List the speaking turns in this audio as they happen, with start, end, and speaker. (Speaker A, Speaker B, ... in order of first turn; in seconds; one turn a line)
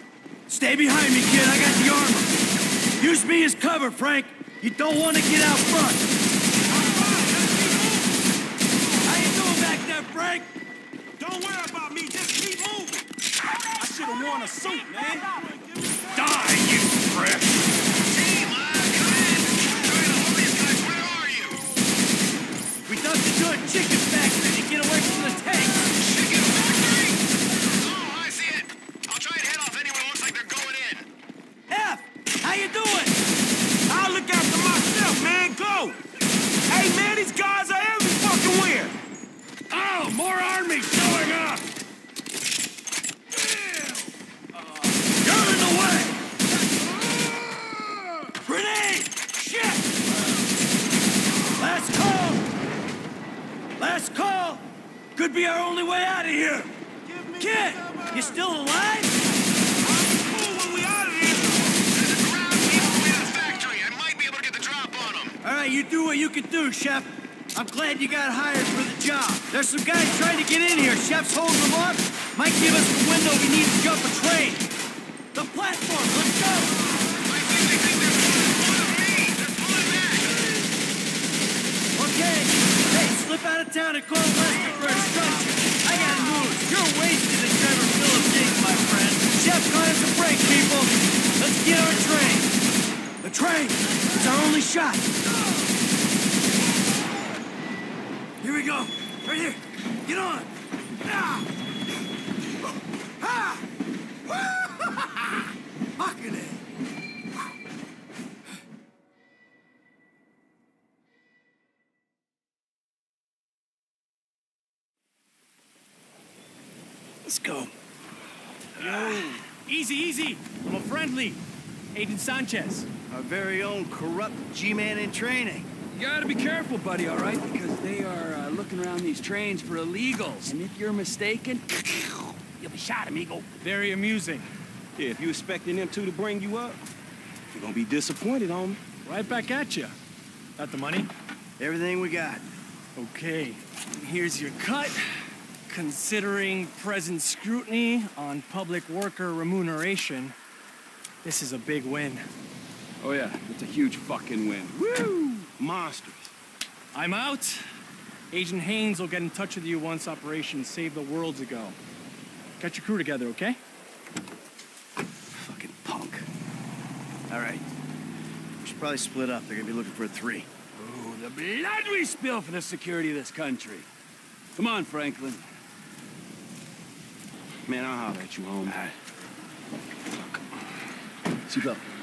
Speaker A: 0.5-2.4
Speaker A: 3.0-6.1
Speaker B: 6.7-8.2
Speaker A: 9.1-10.5
Speaker B: 11.2-13.1
Speaker B: 13.8-16.5
Speaker C: 16.1-17.6
Speaker D: 18.1-21.6
Speaker A: 22.9-25.9
Speaker D: 26.0-27.2
Speaker D: 27.7-31.1
Speaker A: 31.7-33.1
Speaker B: 33.9-36.0
Speaker B: 36.7-39.0
Speaker C: 39.7-41.7
Speaker C: 43.4-44.1
Speaker A: 45.2-46.2
Speaker C: 47.1-48.0
Speaker A: 48.4-50.0
Speaker A: 51.6-52.5
Speaker A: 53.8-56.8
Speaker B: 57.1-58.4
Speaker A: 57.4-59.2
Speaker B: 59.8-61.8
Speaker D: 61.9-65.3
Speaker A: 65.4-74.7
Speaker A: 75.3-76.8
Speaker D: 77.3-80.3
Speaker A: 82.0-92.6
Speaker A: 93.2-95.1
Speaker A: 98.4-100.5
Speaker A: 101.0-101.5
Speaker A: 103.2-103.7
Speaker A: 104.3-105.5
Speaker A: 106.0-106.6
Speaker A: 117.3-117.7
Speaker E: 118.8-121.4
Speaker C: 118.9-119.3
Speaker E: 121.9-122.9
Speaker A: 123.1-125.7
Speaker C: 125.9-133.5
Speaker E: 133.6-134.5
Speaker B: 135.0-136.7
Speaker B: 137.6-138.6
Speaker E: 139.0-139.9
Speaker E: 140.6-141.1
Speaker A: 141.6-142.5
Speaker E: 143.0-145.2
Speaker E: 145.7-150.3
Speaker E: 151.2-152.2
Speaker C: 153.0-155.5
Speaker B: 155.6-156.3
Speaker E: 156.9-157.6
Speaker E: 158.3-161.8
Speaker E: 162.6-163.6
Speaker A: 165.5-166.2
Speaker A: 167.3-167.7
Speaker A: 168.6-170.5
Speaker C: 170.8-173.9
Speaker C: 174.6-175.4
Speaker B: 177.7-178.8
Speaker C: 181.5-181.8